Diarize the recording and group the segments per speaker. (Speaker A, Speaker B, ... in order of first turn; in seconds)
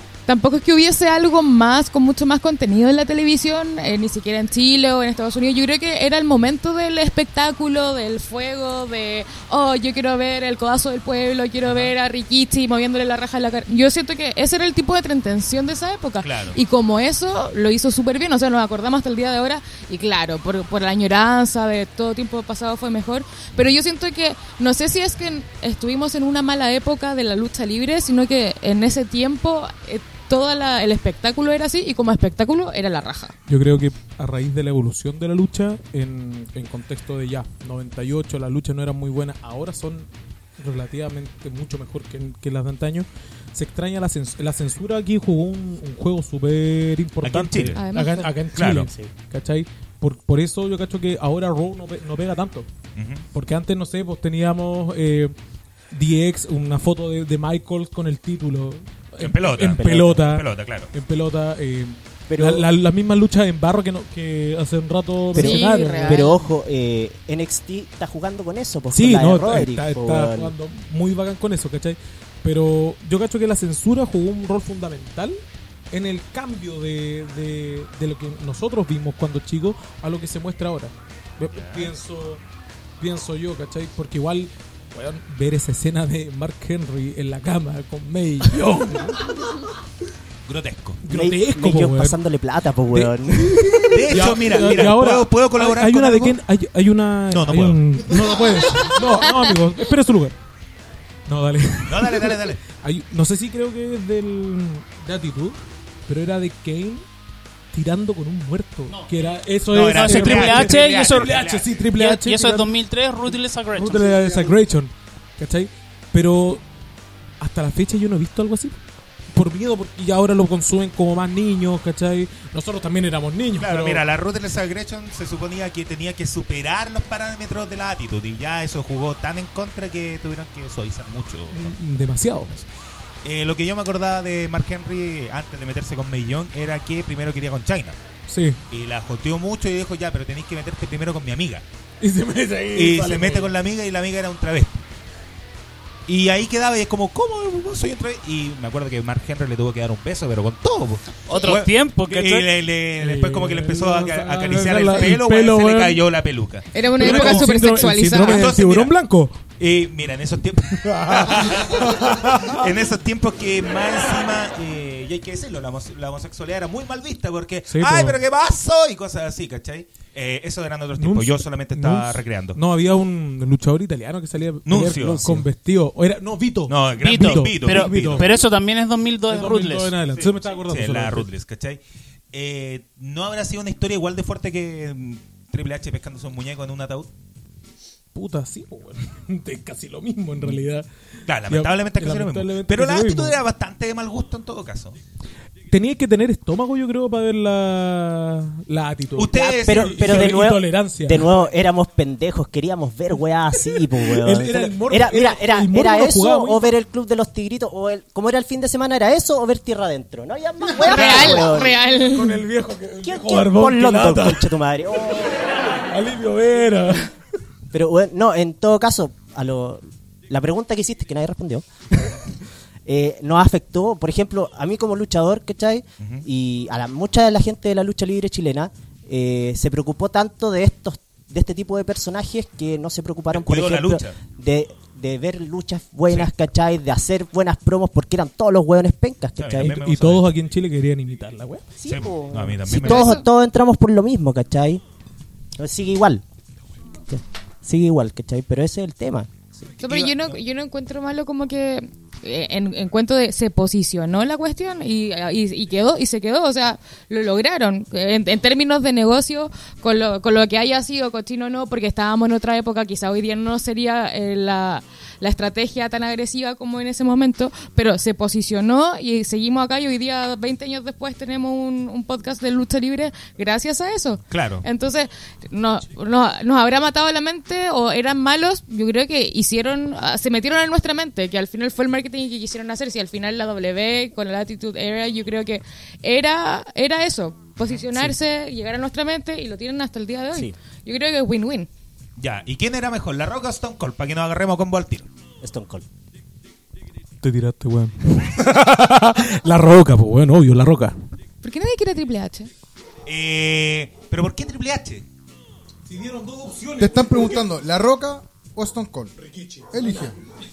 Speaker A: 0.3-33.3, 47.8-48.4, 65.3-66.4, 156.7-158.5, 210.8-212.4, 242.8-243.2, 249.8-291.7, 301.4-302.5
Speaker B: 11.6-11.9, 16.2-16.6, 47.2-47.9, 48.5-48.9, 53.0-53.2, 59.2-60.9, 81.5-82.0, 90.5-91.0, 93.9-96.4, 97.3-98.3, 101.9-102.6, 109.7-111.7, 123.5-131.8, 133.2-138.0, 138.7-141.6, 142.7-144.8, 146.1-157.5, 158.2-159.0, 159.6-172.6, 174.6-175.4, 176.7-178.3, 180.1-181.8, 182.3-187.1, 190.4-190.6, 191.3-195.0, 199.2-200.4, 226.0-226.2, 233.3-234.2, 239.4-240.3, 241.8-243.1, 249.8-250.3, 274.3-274.6, 292.2-295.1, 303.1-305.0
Speaker C: 33.5-52.7, 53.3-55.3, 55.9-66.3, 68.9-75.4, 75.9-82.4, 83.0-89.2, 91.0-92.2, 92.9-100.3, 101.3-107.0, 107.7-112.7, 113.7-116.6, 117.4-118.8, 119.3-124.0, 131.5-132.6, 138.3-138.6, 142.0-143.5, 153.0-156.0, 156.9-159.4, 160.8-162.7, 167.7-168.2, 171.0-178.3, 179.3-181.3, 188.1-190.9, 191.5-193.4, 195.7-201.3, 203.6-206.7, 211.0-214.5, 215.9-217.1, 239.6-241.7, 297.2-300.9, 305.9-307.4, 309.2-310.1
Speaker D: 59.9-60.1, 62.3-62.7, 65.3-70.5, 91.1-94.3, 199.3-211.8, 213.0-215.4, 217.7-221.7, 222.8-239.8, 241.8-244.8, 245.6-246.2, 247.1-249.5, 295.4-295.9
Speaker E: 109.9-114.4, 151.2-152.5, 177.0-179.9
Speaker F: 306.8-309.1, 309.7-310.1